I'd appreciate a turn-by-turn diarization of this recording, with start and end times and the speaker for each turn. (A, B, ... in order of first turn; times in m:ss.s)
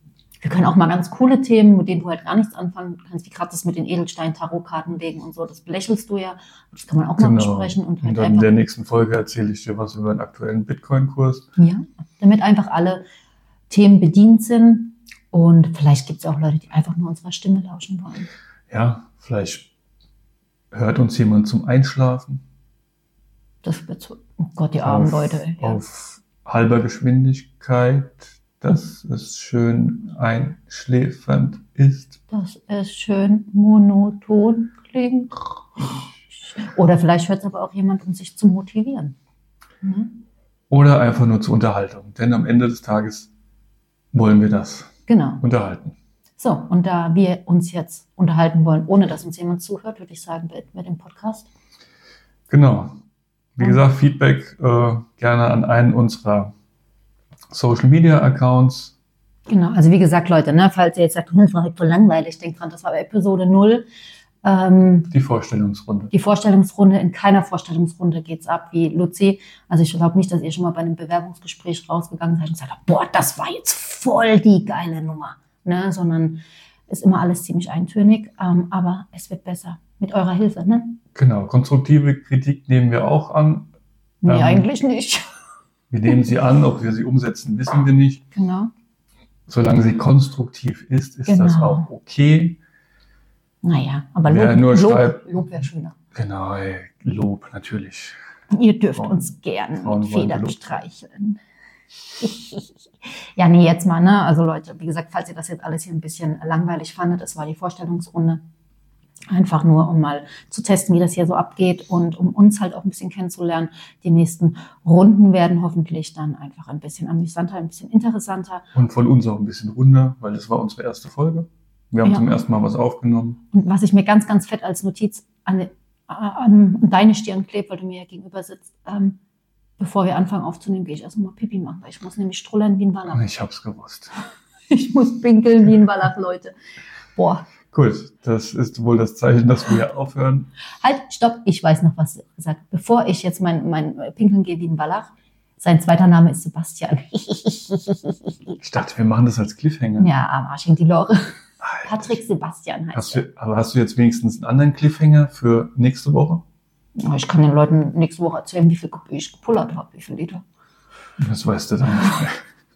0:00.4-0:08.5 A
0:07.2-0:11.5 B
0:11.6-0:13.0 A
0:13.7-0:18.3 A
0:18.7-0:19.7 B
0:20.7-0:22.4 B
0:23.6-0:25.8 A
0:24.8-0:32.2 B
0:32.3-0:39.2 A
0:39.8-0:40.2 A
0:40.7-0:43.3 B
0:44.1-0:46.0 B
0:45.1-0:45.4 A
0:46.4-0:51.5 A
0:52.5-0:53.0 B
0:53.6-0:56.5 B
0:57.5-0:58.9 B
0:59.5-1:03.9 A
1:04.4-1:05.1 A
1:05.1-1:06.1 B
1:06.1-1:21.0 A
1:21.1-1:23.7 B
1:24.2-1:25.2 A
1:24.2-1:24.7 B
1:25.9-1:28.2 B
1:28.3-1:28.7 A
1:29.5-1:32.6 B
1:31.2-1:31.9 A
1:33.6-1:36.0 A
1:34.2-1:35.2 B
1:36.1-1:38.2 B
1:38.5-1:41.4 A
1:38.9-1:40.8 B
1:42.2-1:42.7 A
1:43.4-1:48.4 A
1:49.3-1:58.7 A
1:58.7-2:03.4 B
2:03.5-2:09.2 A
2:09.8-2:13.2 A
2:13.1-2:14.1 B
2:14.7-2:16.5 A
2:17.1-2:17.4 A
2:17.7-2:20.5 B
2:20.8-2:28.6 A
2:28.6-2:30.1 B
2:30.0-2:33.2 A
2:31.6-2:32.1 B
2:32.9-2:36.4 B
2:37.0-2:40.4 A
2:41.2-2:42.4 B